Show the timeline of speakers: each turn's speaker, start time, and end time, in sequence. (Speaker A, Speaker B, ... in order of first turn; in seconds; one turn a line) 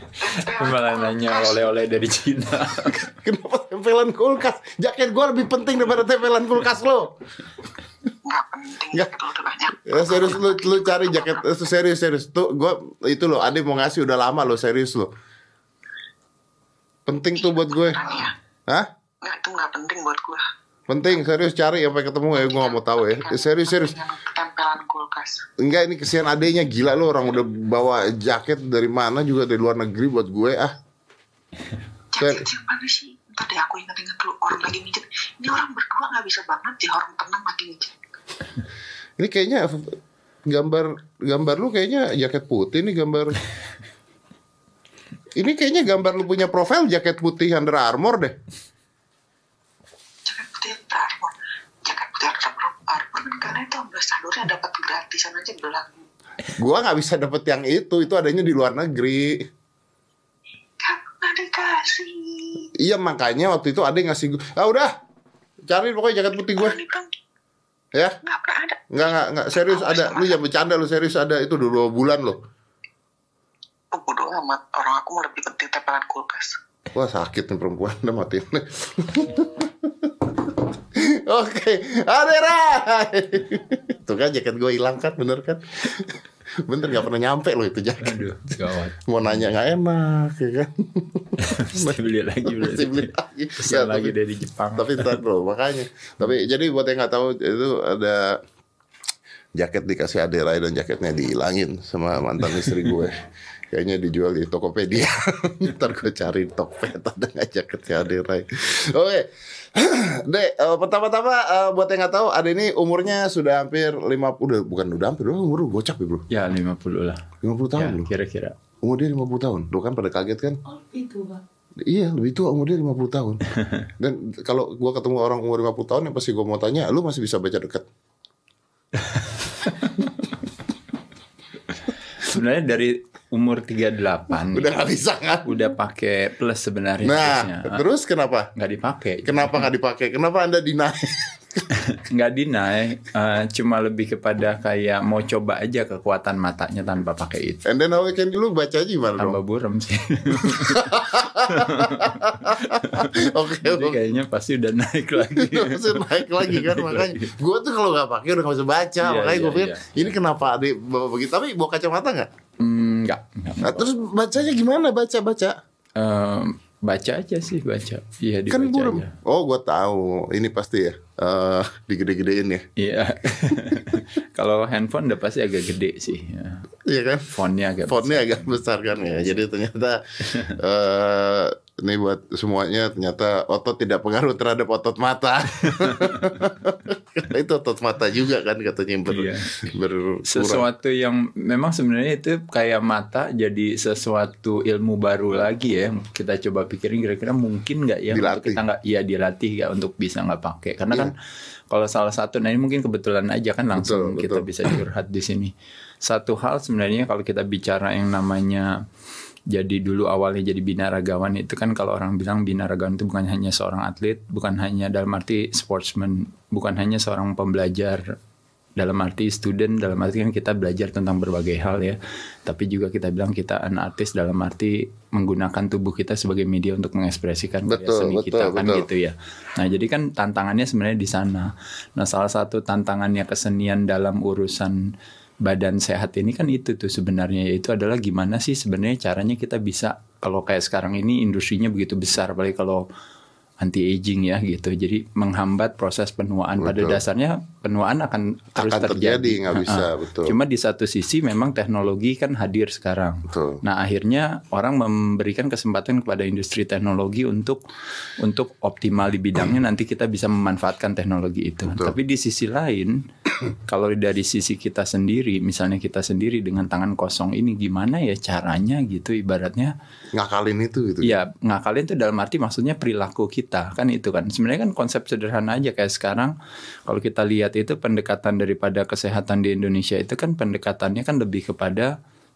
Speaker A: 0.2-1.8
Speaker B: 0.2-3.1
Speaker C: 3.0-7.1
Speaker A: 8.2-11.5
Speaker C: 9.8-15.1
Speaker C: 17.1-18.0
Speaker A: 17.3-18.3
Speaker A: 19.2-20.4
Speaker C: 20.9-24.0
Speaker A: 22.3-25.4
Speaker C: 25.6-30.8
Speaker A: 32.1-38.0
Speaker C: 32.2-32.5
Speaker C: 39.2-43.4
Speaker C: 45.4-48.4
Speaker A: 50.2-56.0
Speaker C: 56.5-59.5
Speaker A: 60.8-62.7
Speaker C: 62.8-64.9
Speaker C: 65.7-66.8
Speaker A: 66.5-67.1
Speaker A: 68.2-68.8
Speaker C: 68.9-72.4
Speaker A: 69.5-70.4
Speaker A: 73.9-76.6
Speaker C: 76.9-80.1
Speaker C: 80.9-88.2
Speaker B: 88.0-89.5
Speaker C: 89.0-94.1
Speaker B: 91.4-95.2
Speaker C: 94.8-98.4
Speaker C: 99.5-103.2
Speaker C: 103.7-116.2
Speaker B: 116.3-117.2
Speaker C: 117.4-118.1
Speaker B: 117.8-118.5
Speaker C: 118.8-120.6
Speaker B: 120.8-121.4
Speaker C: 121.8-123.4
Speaker C: 124.0-127.8
Speaker B: 129.1-130.1
Speaker B: 132.2-134.8
Speaker C: 134.5-135.7
Speaker B: 135.4-137.8
Speaker C: 137.0-138.5
Speaker B: 138.5-139.7
Speaker C: 139.2-141.6
Speaker B: 141.7-147.6
Speaker C: 147.6-149.4
Speaker B: 149.2-157.3
Speaker C: 150.3-154.0
Speaker C: 155.2-162.3
Speaker B: 159.0-160.2
Speaker B: 162.6-163.8
Speaker C: 163.6-165.6
Speaker B: 166.0-169.1
Speaker C: 168.5-172.7
Speaker B: 172.8-176.7
Speaker C: 176.8-177.3
Speaker B: 177.3-178.5
Speaker C: 177.9-190.6
Speaker B: 185.8-186.3
Speaker B: 189.1-189.5
Speaker B: 190.3-201.1
Speaker C: 198.1-198.6
Speaker B: 201.7-205.5
Speaker C: 203.7-204.7
Speaker B: 206.0-208.8
Speaker B: 209.5-218.1
Speaker B: 218.8-234.8
Speaker C: 227.7-228.9
Speaker B: 235.4-242.8
Speaker B: 243.6-257.6
Speaker C: 246.6-247.0
Speaker C: 248.6-250.3
Speaker C: 253.3-253.6
Speaker B: 258.2-263.0
Speaker C: 261.7-261.9
Speaker B: 263.7-269.7
Speaker C: 270.1-271.2
Speaker B: 271.0-276.3
Speaker B: 276.9-281.9